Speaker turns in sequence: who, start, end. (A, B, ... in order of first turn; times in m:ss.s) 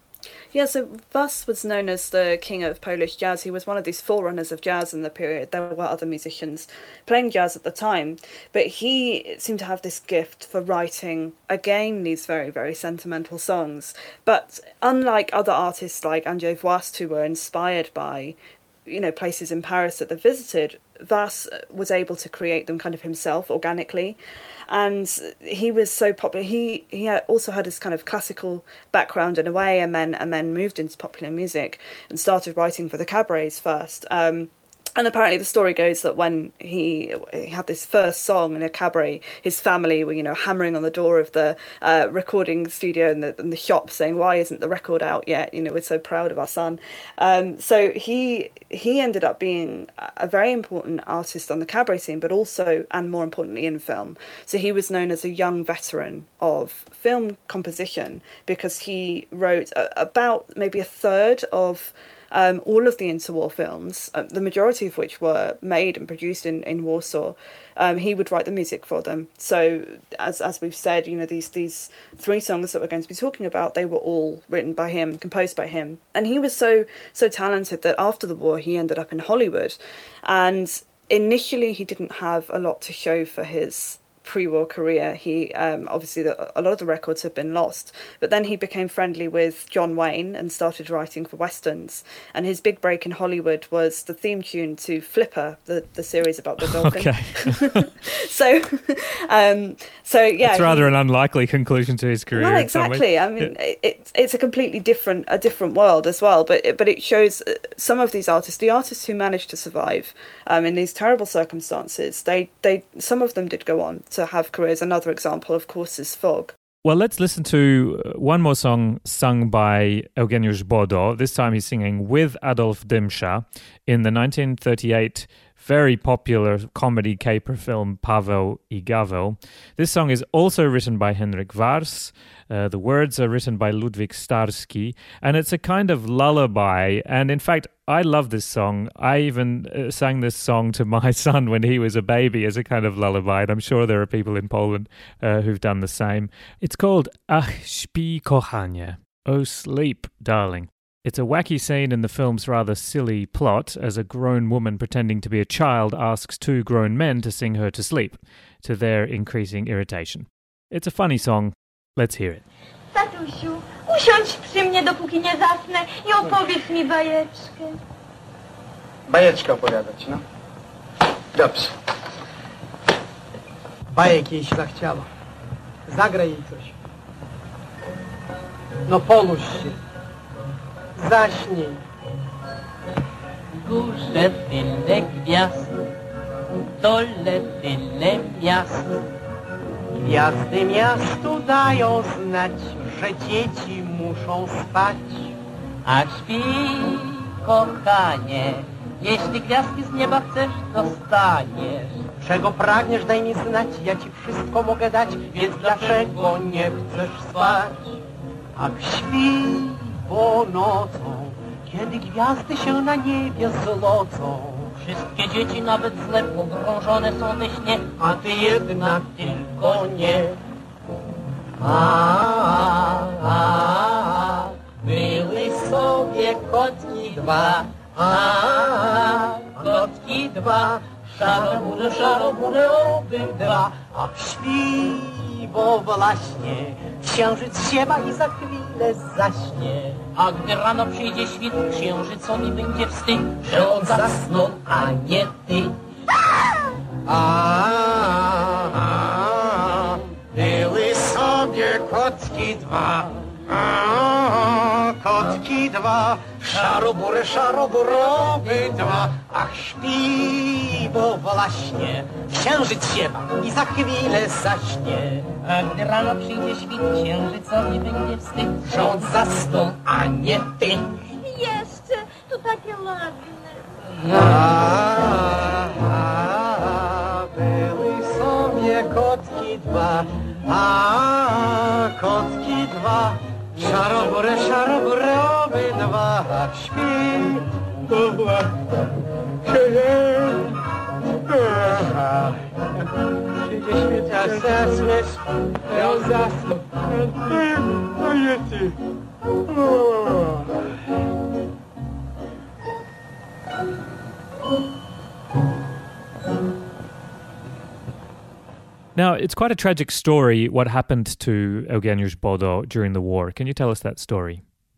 0:00.5-1:40.9 A
1:36.6-1:37.9 B
1:40.4-1:43.5 B
1:42.3-1:56.5 A
1:56.8-2:42.4 B
2:42.9-2:47.8 C
2:49.1-2:50.2 D
2:51.4-2:51.7 D
2:53.9-2:55.0 D
2:55.9-2:56.7 D
2:58.9-2:59.8 D
3:01.0-3:01.8 D
3:03.6-3:05.7 E
3:06.8-3:08.9 E
3:10.0-3:15.3 D
3:15.8-3:22.0 E
3:22.2-3:27.9 D
3:25.3-3:26.4 E
3:27.3-3:27.6 E
3:28.6-3:34.8 D
3:34.8-3:37.9 E
3:38.0-3:40.3 D
3:39.1-3:40.2 E
3:41.6-4:00.0 D
3:49.6-3:50.4 E
3:51.2-3:52.9 E
4:00.1-4:05.7 E
4:03.4-4:04.7 D
4:07.0-4:25.3 D
4:25.5-4:29.0 E
4:28.6-4:30.8 D
4:31.2-4:33.6 C
4:34.1-4:48.5 D
4:49.4-4:50.4 D
4:51.3-4:52.3 D
4:53.4-4:58.7 D
5:09.0-5:14.4 B